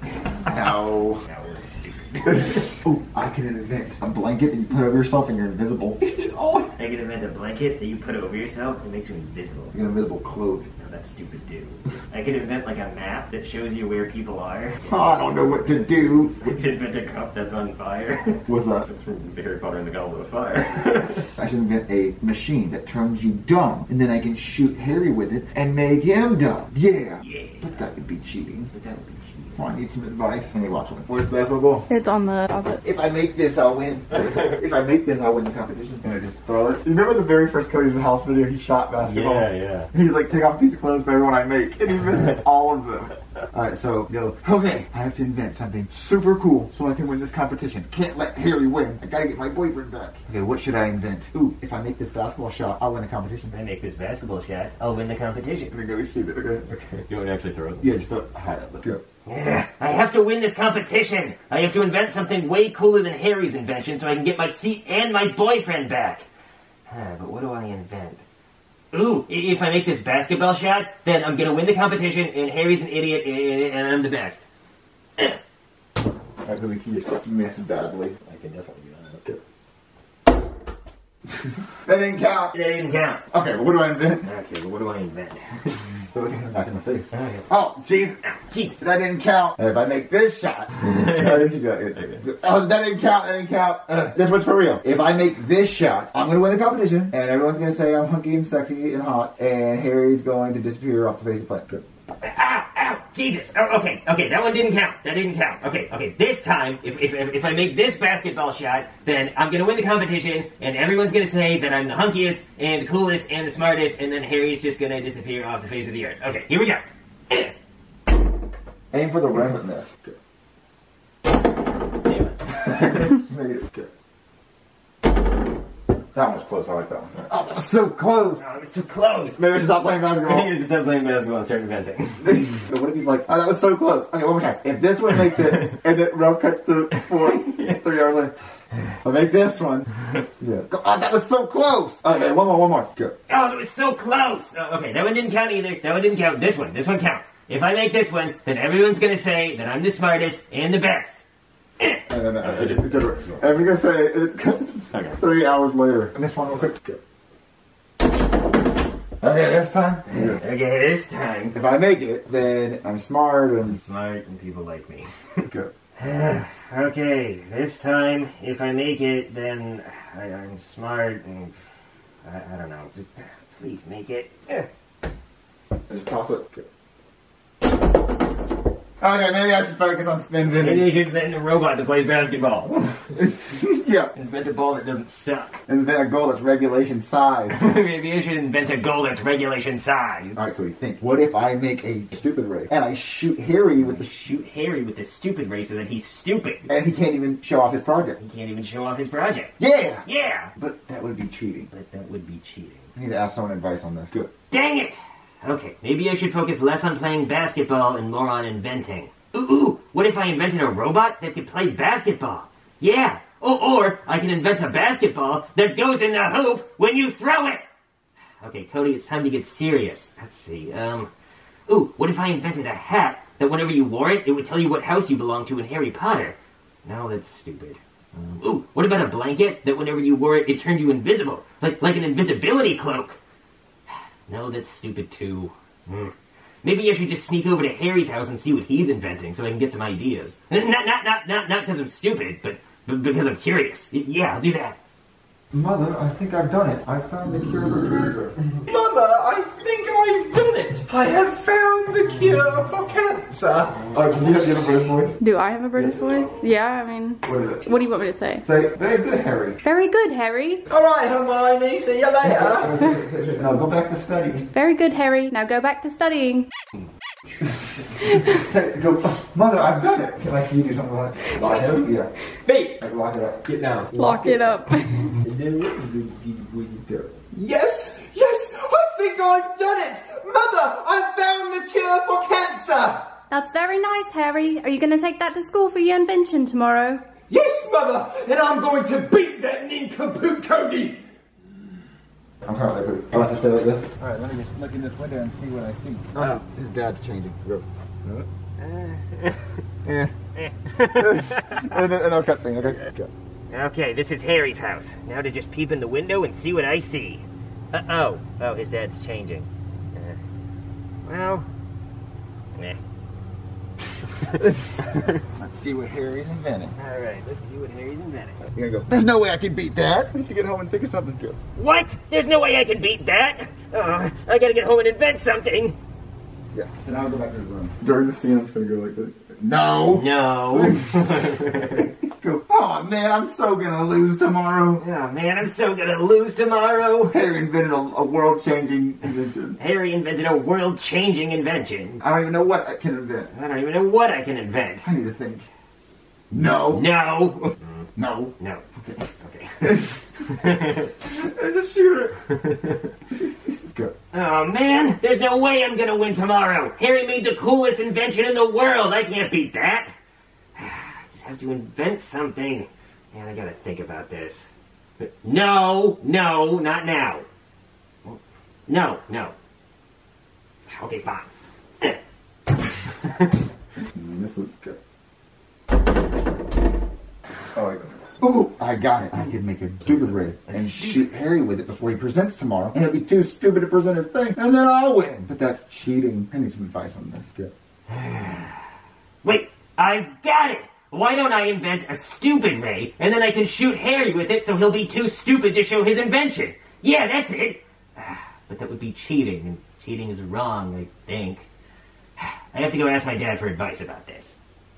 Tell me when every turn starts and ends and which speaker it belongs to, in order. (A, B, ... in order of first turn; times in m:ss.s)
0:00.4-0:01.2 A
0:01.2-0:02.7 B
0:02.8-0:06.2 A
0:06.2-0:06.6 C
0:06.8-0:09.8 B
0:09.7-0:10.6 A
0:10.8-0:15.2 B
0:14.8-0:16.4 A
0:16.4-0:21.3 B
0:18.5-0:18.9 A
0:21.4-0:28.7 A
0:27.2-0:27.8 B
0:28.7-0:29.6 B
0:29.6-0:31.9 A
0:31.9-0:32.8 D
0:32.8-0:53.5 A
0:39.0-0:39.9 B
0:53.5-0:55.7 B
0:55.7-0:56.7 A
0:57.1-0:57.8 B
0:57.8-0:59.0 A
0:59.2-1:06.2 B
1:06.9-1:08.2 B
1:08.9-1:14.4 B
1:16.4-1:18.2 A
1:18.2-1:19.2 B
1:21.8-1:22.5 A
1:22.5-1:23.2 B
1:23.3-1:24.2 A
1:24.2-1:25.8 B
1:26.1-1:28.2 A
1:27.1-1:27.4 B
1:28.2-1:28.8 B
1:28.8-1:41.8 A
1:42.2-1:57.5 B
1:58.9-2:00.1 A
2:02.0-2:03.1 B
2:02.7-2:03.9 A
2:06.1-2:08.5 A
2:08.4-2:09.4 B
2:09.4-2:10.5 A
2:10.2-2:12.2 B
2:12.2-2:18.3 A
2:19.0-2:19.9 A
2:20.4-2:23.1 A
2:23.3-2:31.2 B
2:31.8-2:33.3 B
2:32.1-2:37.0 A
2:39.2-2:40.4 A
2:40.2-2:41.6 B
2:41.5-2:43.8 A
2:43.7-2:45.1 B
2:46.0-2:51.5 B
2:52.2-2:54.7 B
2:55.9-2:56.6 A
2:59.0-3:00.9 A
3:00.5-3:03.0 B
3:03.1-3:04.1 A
3:04.2-3:05.6 B
3:05.7-3:07.6 A
3:07.5-3:10.4 B
3:10.4-3:14.2 A
3:13.8-3:16.6 B
3:16.7-3:18.2 A
3:18.2-3:19.5 B
3:19.6-3:21.7 A
3:20.0-3:20.5 B
3:21.7-3:22.9 B
3:23.0-3:24.3 A
3:24.5-3:37.7 B
3:38.4-3:41.1 B
3:41.7-3:53.2 B
3:54.3-4:04.8 B
4:05.5-4:08.4 A
4:08.7-4:13.8 C
4:13.9-4:15.2 A
4:15.2-4:18.4 D
4:15.9-4:16.2 C
4:17.2-4:17.7 A
4:18.4-4:19.6 A
4:19.6-4:20.6 D
4:20.7-4:23.5 C
4:22.2-4:24.5 A
4:24.5-4:26.5 D
4:28.1-4:28.4 D
4:28.3-4:32.1 A
4:31.4-4:31.9 C
4:32.4-4:32.8 C
4:32.8-4:34.2 A
4:33.5-4:34.6 C
4:33.9-4:35.2 D
4:35.2-4:43.2 C
4:43.3-4:47.0 D
4:47.3-4:51.0 C
4:52.4-4:58.3 A
4:58.6-4:59.4 B
4:59.8-5:00.1 A
5:00.4-5:01.7 B
5:00.9-5:03.1 A
5:03.5-5:10.2 B
5:11.0-5:11.5 B
5:15.3-5:16.7 A
5:16.8-5:18.4 B
5:18.5-5:21.4 A
5:21.6-5:25.8 B
5:26.5-5:30.9 A
5:29.9-5:31.8 B
5:31.7-5:34.8 A
5:34.8-5:37.1 B
5:37.1-5:39.6 A
5:39.6-5:42.0 B
5:42.0-5:43.3 A
5:43.3-5:44.8 B
5:44.8-5:45.4 A
5:46.3-5:46.9 A
5:46.7-5:47.8 B
5:48.0-5:49.0 A
5:49.1-5:50.9 B
5:49.6-5:49.9 A
5:51.0-5:52.2 A
5:53.2-5:53.9 A
5:54.1-5:59.9 B
6:00.5-6:04.4 B
6:05.2-6:07.2 B
6:08.0-6:09.3 B
6:10.7-6:11.3 B
6:13.9-6:14.8 A
6:17.5-6:27.5 A
6:20.5-6:21.0 B
6:27.9-6:28.5 B
6:29.2-6:41.5 B
6:42.2-6:44.3 B